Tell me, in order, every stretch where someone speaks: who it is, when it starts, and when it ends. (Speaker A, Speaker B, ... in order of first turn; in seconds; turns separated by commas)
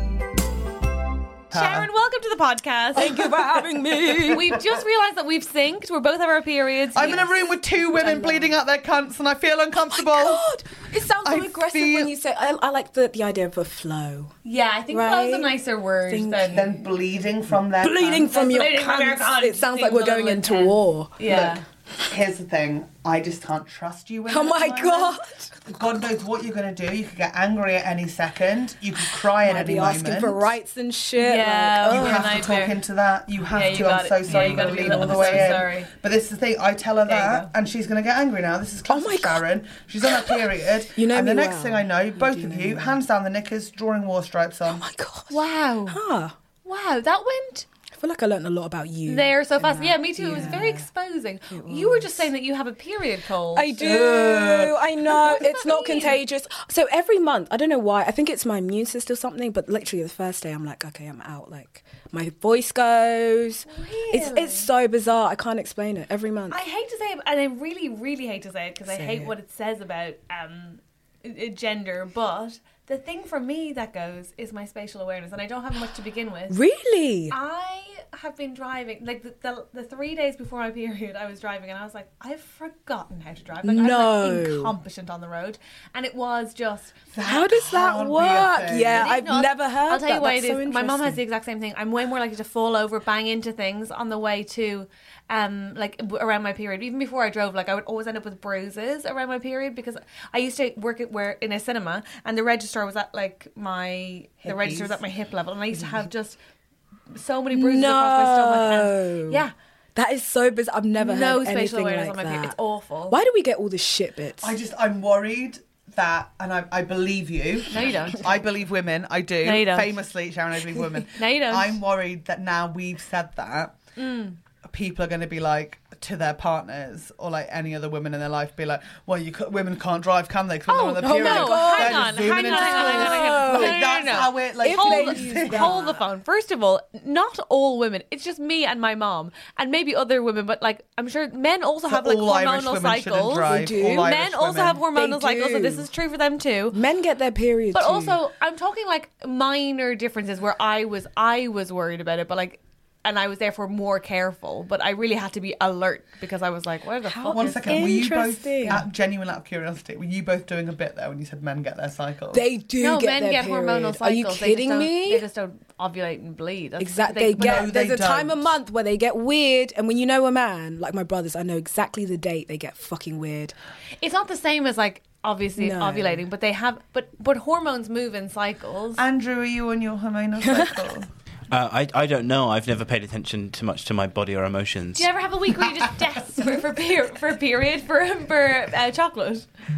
Speaker A: 1.5-1.9, Speaker B: 1.5-3.2, Speaker C: 2.9-4.5, Speaker B: 4.3-7.3, Speaker A: 4.3-4.5, Speaker A: 6.9-10.4, Speaker C: 8.0-8.5, Speaker C: 9.8-14.3, Speaker A: 11.2-12.1, Speaker B: 14.4-16.7, Speaker C: 14.9-15.6, Speaker C: 16.1-16.6, Speaker A: 16.5-18.3, Speaker C: 17.8-21.1, Speaker B: 18.2-21.6, Speaker A: 21.2-30.5, Speaker C: 24.3-25.5, Speaker C: 29.4-32.5, Speaker B: 31.1-32.8, Speaker A: 31.9-44.8, Speaker B: 33.5-35.9, Speaker C: 34.3-35.6, Speaker B: 37.1-37.5, Speaker C: 38.9-39.5, Speaker C: 40.9-43.0, Speaker C: 44.7-46.3, Speaker B: 45.3-46.0, Speaker B: 46.6-47.7, Speaker C: 48.0-50.9, Speaker B: 49.0-53.9, Speaker C: 51.5-52.3, Speaker C: 53.5-66.6, Speaker A: 53.8-54.8, Speaker B: 55.1-56.2, Speaker B: 63.7-64.7, Speaker B: 66.5-76.6, Speaker C: 68.9-69.3, Speaker C: 76.5-77.3, Speaker B: 77.3-87.0, Speaker C: 83.6-84.7, Speaker A: 87.1-89.2, Speaker C: 87.2-91.2, Speaker B: 88.9-106.4, Speaker A: 104.4-105.0, Speaker B: 107.1-109.5, Speaker C: 107.5-112.5, Speaker B: 111.0-113.2, Speaker C: 113.1-114.5, Speaker A: 114.4-123.8, Speaker B: 117.7-118.4, Speaker B: 119.4-119.9, Speaker B: 121.1-121.8, Speaker B: 124.0-124.3, Speaker A: 124.6-135.8, Speaker B: 130.7-146.8, Speaker C: 130.9-134.0, Speaker C: 134.6-136.0, Speaker A: 141.9-144.8, Speaker C: 143.4-144.1, Speaker C: 144.9-145.9, Speaker C: 146.7-148.2, Speaker B: 147.7-158.1, Speaker C: 157.0-158.8, Speaker A: 157.3-162.4, Speaker C: 162.3-165.2, Speaker B: 162.8-167.7, Speaker C: 166.8-173.5, Speaker A: 167.4-168.5, Speaker B: 174.0-179.0, Speaker C: 175.6-176.2, Speaker A: 179.0-181.1, Speaker D: 181.5-185.1, Speaker B: 184.9-189.4